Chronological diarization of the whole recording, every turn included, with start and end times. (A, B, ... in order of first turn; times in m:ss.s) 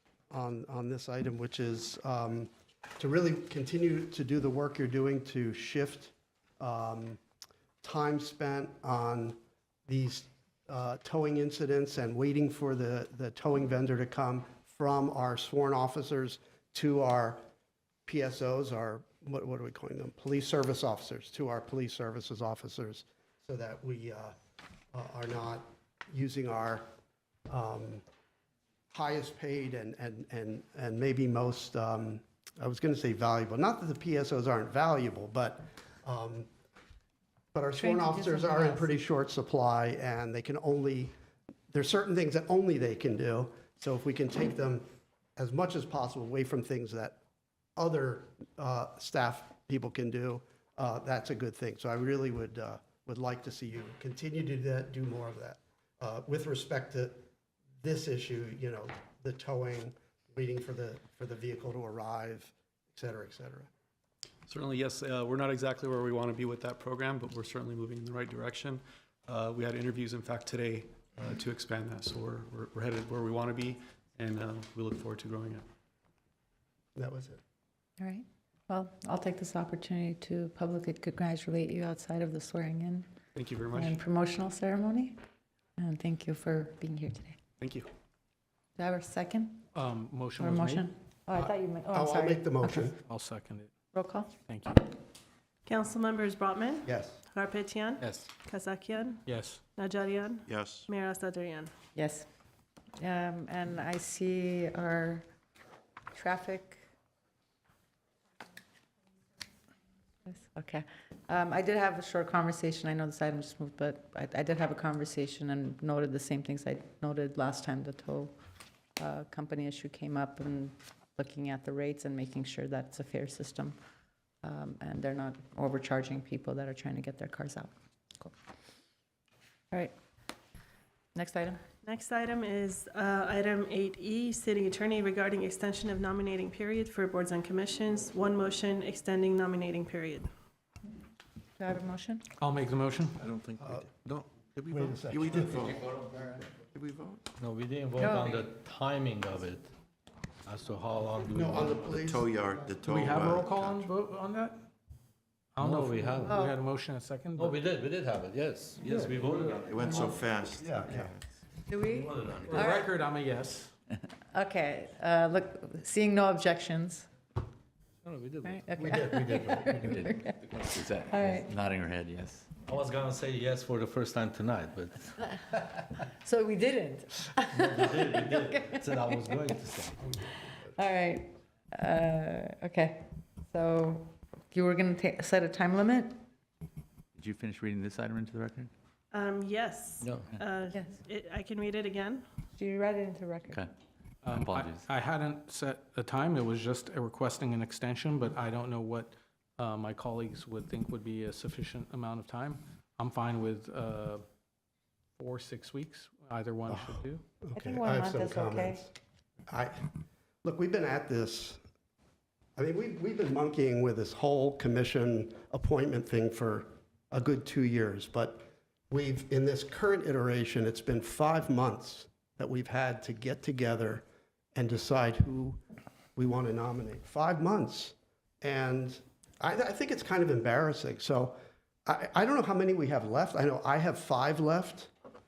0:00.3-0:07.2 A
0:07.8-0:17.4 A
0:18.0-0:24.4 A
0:24.9-0:26.8 A
0:27.5-0:28.0 A
0:28.9-0:36.5 A
0:37.5-0:41.1 A
0:37.8-0:38.9 B
0:41.7-0:44.8 A
0:45.4-0:47.2 A
0:47.8-0:57.2 A
0:57.8-1:03.7 A
1:04.4-1:15.7 C
1:17.0-1:17.4 A
1:18.0-1:23.1 B
1:23.3-1:24.0 C
1:23.7-1:25.2 B
1:25.8-1:27.4 B
1:27.6-1:27.9 C
1:28.8-1:29.6 B
1:29.7-1:30.8 D
1:30.4-1:32.9 B
1:31.3-1:33.0 A
1:33.1-1:33.7 D
1:33.9-1:34.3 B
1:34.5-1:34.9 D
1:35.6-1:39.2 E
1:36.8-1:37.2 A
1:38.0-1:38.3 D
1:39.2-1:39.6 D
1:39.8-1:41.7 E
1:40.5-1:40.8 F
1:41.9-1:42.3 B
1:43.0-1:45.2 B
1:46.1-1:46.8 B
1:50.3-1:58.3 B
1:59.0-2:03.8 B
2:04.4-2:08.3 B
2:11.1-2:11.6 B
2:11.8-2:20.3 E
2:21.6-2:22.2 B
2:22.4-2:23.2 D
2:23.2-2:24.4 G
2:23.6-2:23.9 A
2:24.7-2:25.7 A
2:25.1-2:25.9 F
2:26.6-2:27.2 F
2:27.4-2:29.7 G
2:28.0-2:28.4 B
2:30.4-2:31.9 G
2:31.3-2:32.3 A
2:31.9-2:33.8 F
2:32.8-2:34.6 D
2:35.6-2:37.6 D
2:35.6-2:36.4 G
2:36.2-2:36.6 B
2:37.4-2:39.8 G
2:39.6-2:41.2 F
2:39.9-2:40.2 B
2:40.6-2:41.1 A
2:41.7-2:42.9 B
2:41.9-2:42.7 G
2:42.4-2:43.7 D
2:44.3-2:47.1 B
2:48.0-2:48.6 G
2:48.4-2:50.5 B
2:48.7-2:50.0 A
2:50.7-2:52.5 H
2:51.1-2:51.5 B
2:52.6-2:55.2 G
2:55.2-2:59.6 B
2:57.5-3:00.1 G
3:00.7-3:06.2 B
3:07.2-3:08.7 H
3:09.1-3:12.2 E
3:10.0-3:10.3 G
3:12.6-3:13.6 B
3:14.2-3:24.2 D
3:14.3-3:14.9 H
3:25.2-3:27.2 D
3:26.7-3:28.9 A
3:27.5-3:28.8 B
3:29.5-3:29.9 A
3:30.4-3:31.6 A
3:32.6-3:45.6 A
3:46.2-3:54.9 A